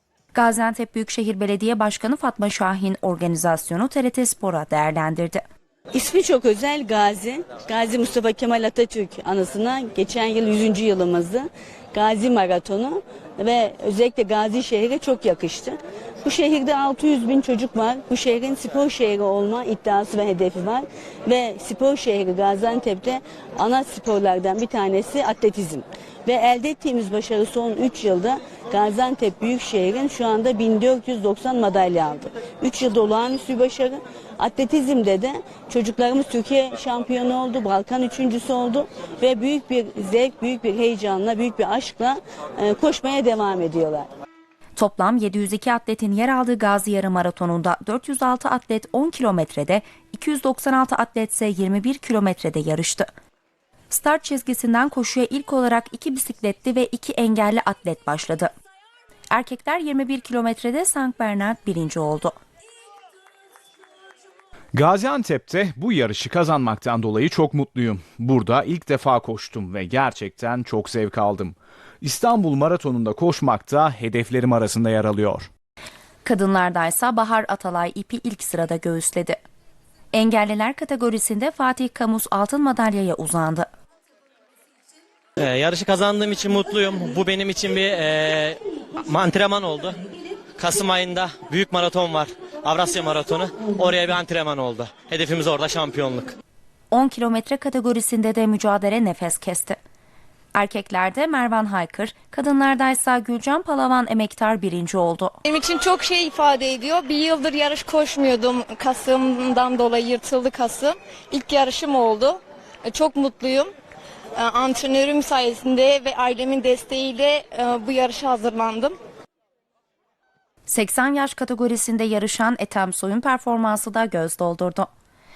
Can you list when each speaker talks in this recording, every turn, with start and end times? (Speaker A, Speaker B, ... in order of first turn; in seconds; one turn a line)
Speaker A: 0.3-5.4
Speaker B: 5.9-44.1
Speaker A: 44.8-53.1
Speaker A: 53.9-58.5
Speaker A: 59.3-62.4
Speaker C: 64.7-75.5
Speaker A: 76.2-79.4
Speaker A: 80.1-83.7
Speaker D: 85.4-90.0
Speaker D: 90.6-96.3
Speaker A: 96.9-99.8
Speaker A: 100.5-105.3
Speaker E: 105.5-113.7
Speaker E: 114.4-119.0
Speaker A: 120.7-124.9